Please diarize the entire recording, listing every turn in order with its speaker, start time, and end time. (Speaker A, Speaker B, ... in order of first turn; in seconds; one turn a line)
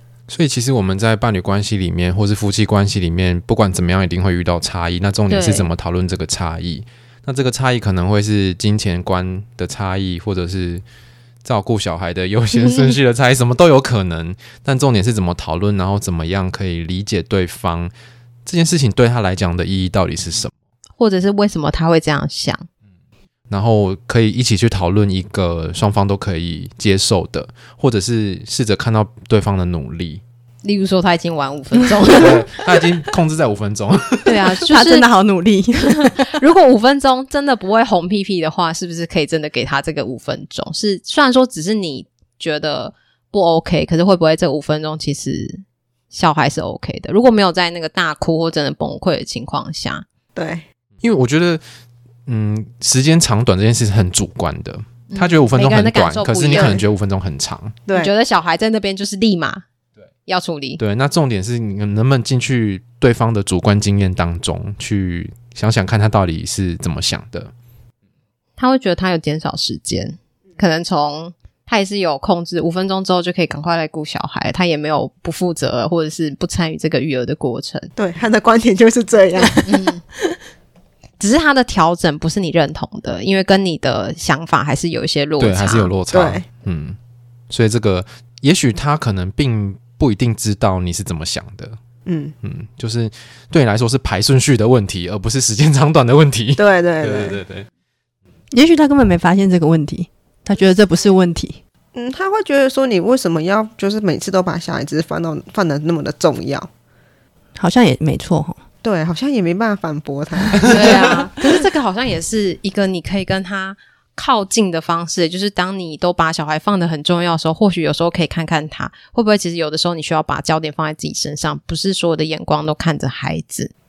Speaker A: 0.3-10.8
Speaker B: 5.3-5.7
Speaker A: 11.4-17.9
Speaker B: 12.5-12.9
Speaker A: 18.5-20.5
Speaker B: 21.0-22.7
Speaker A: 23.5-30.2
Speaker B: 30.6-32.6
Speaker A: 32.1-34.4
Speaker B: 34.2-35.1
Speaker C: 34.6-36.3
Speaker B: 35.8-50.0
Speaker D: 50.4-50.6
Speaker A: 51.0-51.6
Speaker A: 52.3-57.8
Speaker B: 55.1-56.8
Speaker D: 56.5-56.8
Speaker D: 57.9-58.1
Speaker B: 57.9-59.6
Speaker B: 60.3-60.8
Speaker A: 60.8-67.5
Speaker B: 68.6-77.9
Speaker D: 78.0-79.7
Speaker B: 79.6-80.0
Speaker B: 81.2-85.9
Speaker A: 85.4-87.0
Speaker D: 86.1-86.4
Speaker A: 87.5-91.8
Speaker D: 92.1-92.3
Speaker A: 92.4-97.7
Speaker D: 96.6-97.4
Speaker C: 98.5-101.6
Speaker D: 102.0-106.7
Speaker C: 107.6-108.6
Speaker D: 108.8-111.2
Speaker A: 110.6-110.9
Speaker B: 110.7-123.7